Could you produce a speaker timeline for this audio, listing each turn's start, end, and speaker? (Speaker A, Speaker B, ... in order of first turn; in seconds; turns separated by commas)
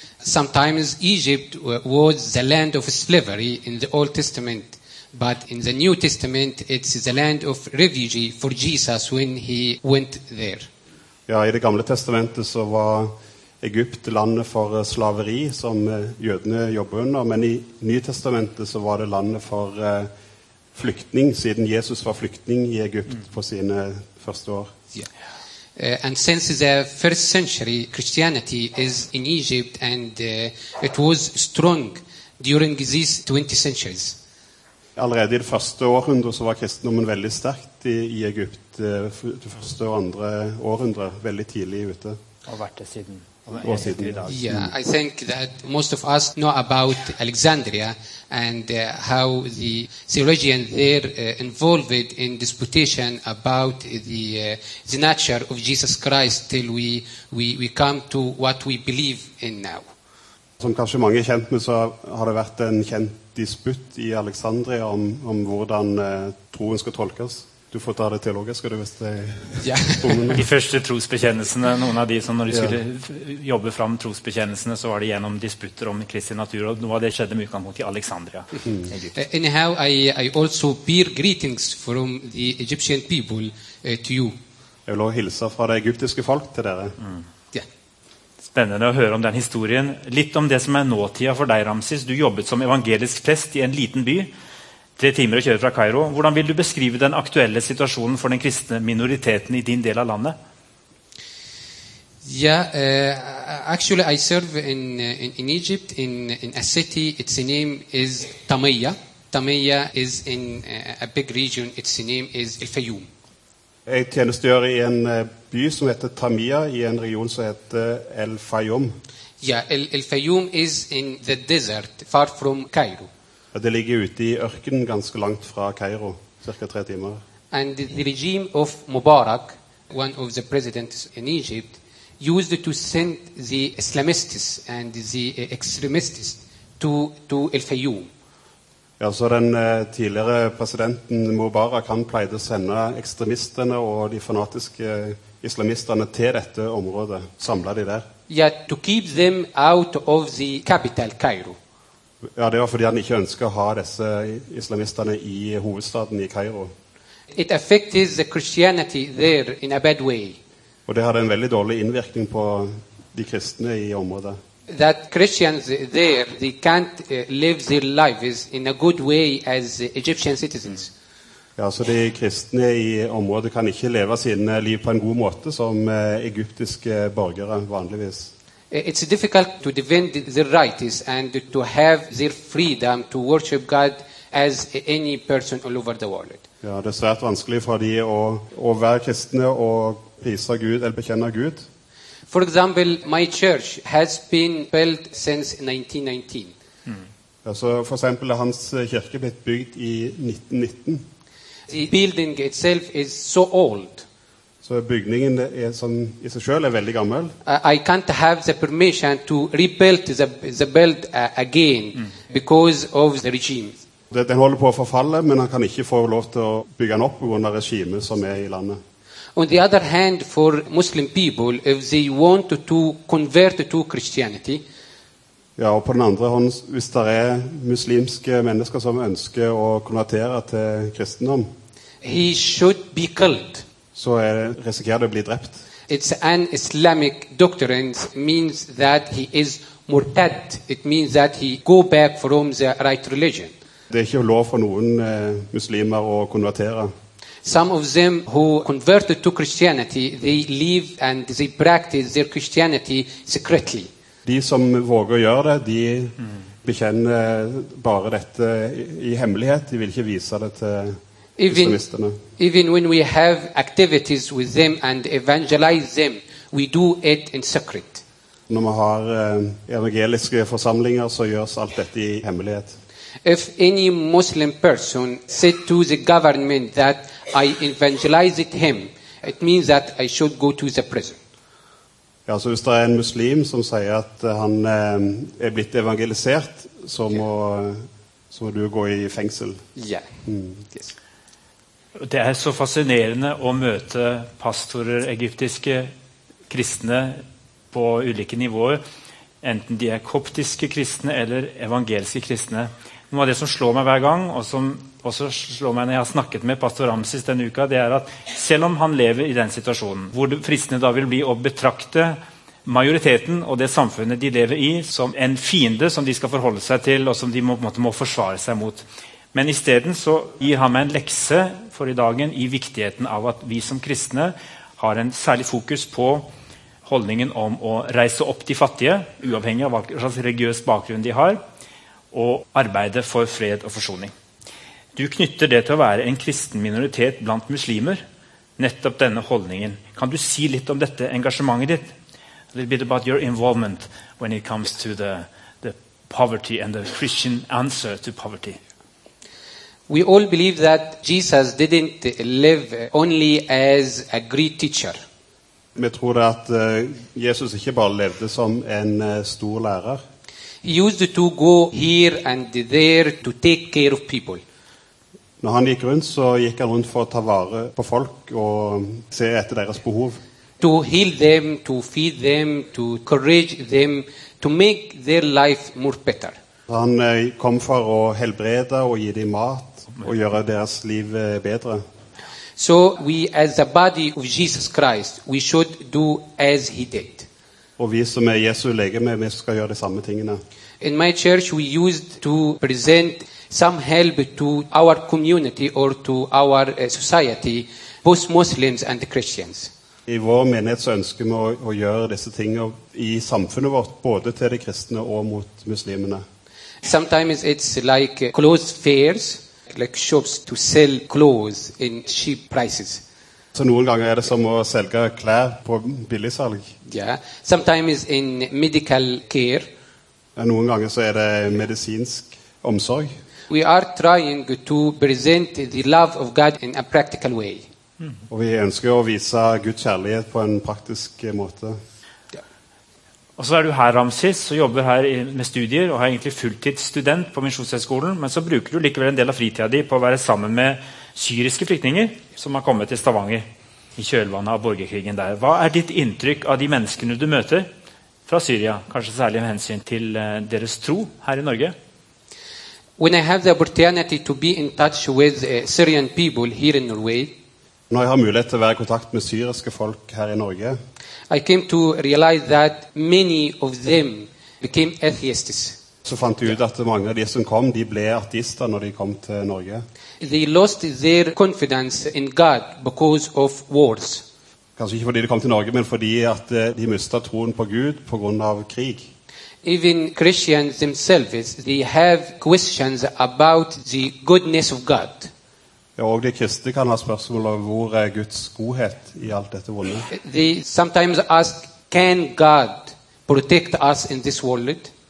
Speaker A: 0.2-10.7, Speaker B: 11.3-20.1, Speaker B: 20.7-24.7, Speaker A: 25.8-34.2, Speaker B: 35.0-42.2, Speaker C: 42.5-44.4, Speaker B: 43.6-44.7, Speaker A: 44.3-59.9, Speaker B: 60.6-70.4, Speaker A: 69.6-70.3, Speaker C: 70.3-79.2, Speaker B: 72.5-72.8, Speaker A: 79.2-84.4, Speaker B: 84.9-87.0, Speaker C: 88.5-94.3, Speaker C: 95.0-100.4, Speaker A: 102.2-113.1, Speaker B: 113.9-119.0, Speaker A: 119.4-123.1, Speaker B: 123.5-127.2, Speaker A: 127.5-138.1, Speaker B: 139.0-148.1, Speaker A: 148.3-151.6, Speaker B: 152.3-156.7, Speaker A: 157.3-160.4, Speaker B: 160.9-164.4, Speaker A: 164.7-170.9, Speaker B: 171.6-178.3, Speaker A: 178.7-186.4, Speaker B: 186.6-191.7, Speaker A: 192.3-196.5, Speaker B: 197.4-201.1, Speaker A: 201.7-204.1, Speaker B: 204.6-207.3, Speaker A: 207.4-213.8, Speaker B: 214.1-218.8, Speaker A: 219.3-224.6, Speaker B: 225.6-231.5, Speaker A: 232.0-233.7, Speaker B: 233.9-235.6, Speaker A: 235.9-243.5, Speaker B: 243.9-246.9, Speaker A: 247.4-253.9, Speaker B: 254.2-262.2, Speaker A: 261.4-261.8, Speaker A: 262.4-268.0, Speaker B: 268.5-272.8, Speaker A: 273.2-281.2, Speaker B: 282.3-289.6, Speaker A: 289.8-290.1, Speaker B: 290.3-290.6, Speaker C: 292.0-295.9, Speaker C: 296.5-298.8, Speaker C: 299.4-326.3, Speaker C: 326.9-331.4, Speaker C: 332.1-334.1, Speaker C: 334.9-338.0, Speaker C: 338.6-341.9, Speaker C: 342.5-348.6, Speaker A: 349.9-355.0, Speaker B: 355.8-360.0, Speaker A: 360.6-364.4, Speaker B: 365.4-370.2, Speaker A: 370.6-376.4, Speaker B: 376.7-381.9, Speaker A: 382.6-387.3, Speaker B: 387.8-390.4, Speaker A: 390.8-399.7, Speaker B: 400.1-406.2, Speaker A: 406.8-413.0, Speaker B: 413.5-416.8, Speaker A: 416.9-419.7, Speaker B: 420.4-423.1, Speaker A: 423.5-427.6, Speaker B: 428.3-431.8, Speaker C: 433.4-443.5, Speaker C: 444.0-447.7, Speaker C: 448.3-451.8, Speaker A: 453.0-457.4, Speaker B: 457.9-460.8, Speaker A: 461.3-465.8, Speaker B: 466.1-469.9, Speaker A: 470.2-474.3, Speaker B: 474.8-479.1, Speaker A: 479.6-485.3, Speaker B: 486.0-490.1, Speaker A: 490.1-494.9